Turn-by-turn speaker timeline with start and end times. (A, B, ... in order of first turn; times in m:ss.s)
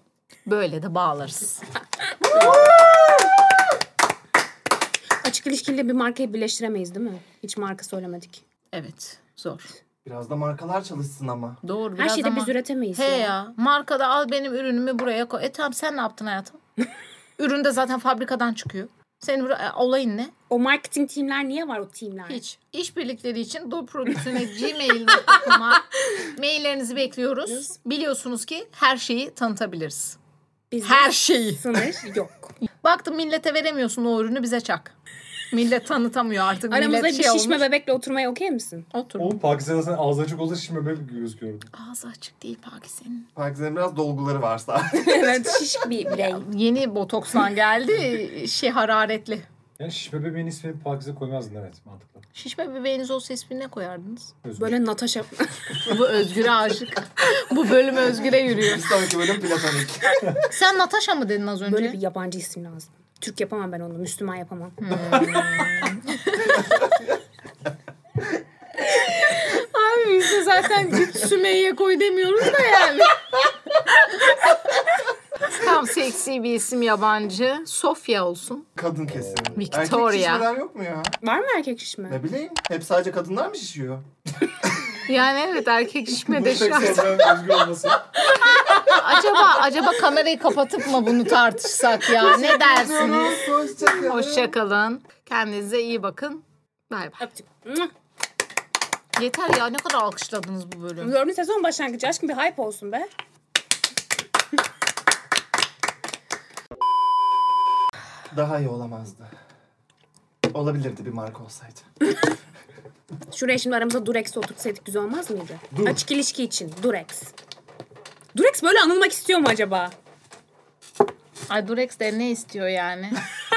0:00.4-0:01.7 A
0:02.2-0:03.1 A
0:02.3-0:02.6 B
0:05.2-0:08.4 B
0:08.7-0:09.7 A
0:10.0-0:11.6 C
0:11.6-0:16.6 A
0:12.0-0:13.3 B
0:17.4-0:20.3 A
0:20.5-0:22.4 B
0:22.3-0:30.2 A
0:30.7-0:32.5 B
0:30.8-0:31.6 A
0:32.8-0:34.9 A
0:35.5-0:37.6 A
0:36.7-0:38.9 B
0:38.9-0:39.4 A
0:39.2-0:41.7 D
0:41.7-0:43.3 A
0:43.3-0:45.6 C
0:44.9-0:46.4 B
0:46.1-0:49.4 A
0:49.8-0:52.2 D
0:52.3-0:54.3 A
0:54.4-0:54.8 D
0:54.6-0:56.0 B
0:55.8-0:59.1 A
0:58.5-1:00.5 C
1:00.5-1:02.0 A
1:01.6-1:04.8 B
1:04.8-1:06.7 A
1:08.9-1:13.2 A
1:15.5-1:18.7 A
1:18.8-1:21.2 C
1:19.1-1:19.7 D
1:19.5-1:20.5 A
1:21.2-1:22.2 B
1:22.1-1:24.0 C
1:25.0-1:27.3 A
1:26.2-1:28.2 D
1:28.4-1:37.2 A
1:32.1-1:34.5 C
1:37.2-1:37.9 B
1:39.1-1:41.1 A
1:41.0-1:43.1 B
1:48.3-1:49.3 C
1:50.5-1:52.1 C
1:53.3-1:57.3 B
1:58.3-1:59.9 B
2:01.5-2:03.2 A